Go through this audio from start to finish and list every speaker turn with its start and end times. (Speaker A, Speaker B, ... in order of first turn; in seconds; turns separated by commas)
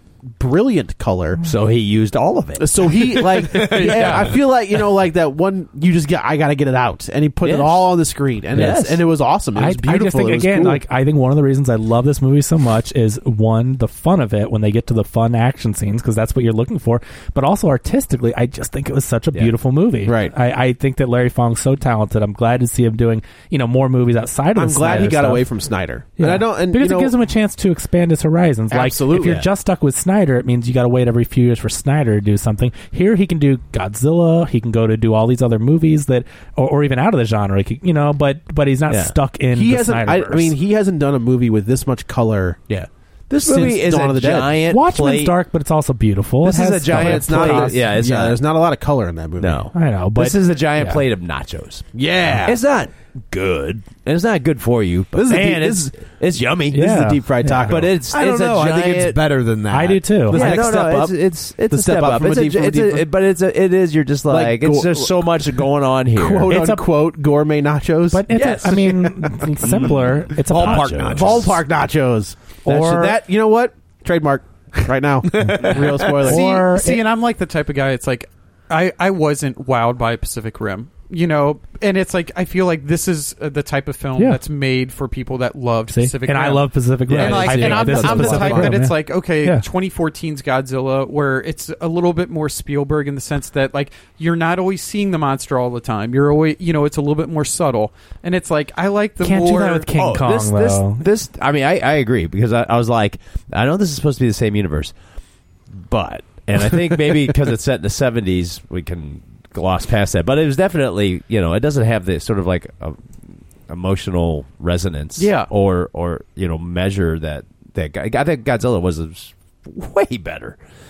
Speaker A: 0.3-1.4, Speaker B: 1.4-4.4, Speaker A: 2.6-10.8, Speaker B: 7.4-7.9, Speaker B: 8.5-9.1, Speaker C: 9.6-25.4, Speaker A: 20.1-20.3, Speaker A: 24.6-27.1, Speaker B: 24.9-25.2, Speaker C: 26.2-40.5, Speaker A: 28.7-29.4, Speaker B: 38.9-39.1, Speaker A: 39.5-44.6, Speaker B: 43.3-45.4, Speaker C: 44.7-47.8, Speaker B: 46.4-48.4, Speaker A: 46.9-49.7, Speaker B: 49.4-56.8, Speaker C: 49.7-51.0, Speaker A: 51.9-52.6, Speaker A: 55.1-56.1, Speaker C: 55.3-55.7, Speaker A: 56.6-58.0, Speaker C: 56.7-57.8, Speaker B: 57.6-59.2, Speaker D: 58.1-60.3, Speaker C: 59.7-60.5, Speaker A: 60.3-63.1, Speaker B: 60.3-66.6, Speaker A: 64.3-65.6, Speaker A: 66.1-68.3, Speaker C: 66.5-66.9, Speaker C: 68.1-71.1, Speaker B: 68.3-71.6, Speaker D: 70.6-71.5, Speaker A: 70.6-76.5, Speaker C: 72.6-73.2, Speaker E: 75.8-99.9, Speaker C: 76.3-77.0, Speaker C: 85.9-89.6, Speaker A: 87.1-88.8, Speaker C: 99.2-101.1, Speaker B: 99.9-104.9, Speaker B: 105.8-113.0, Speaker B: 113.7-120.6, Speaker E: 115.2-115.5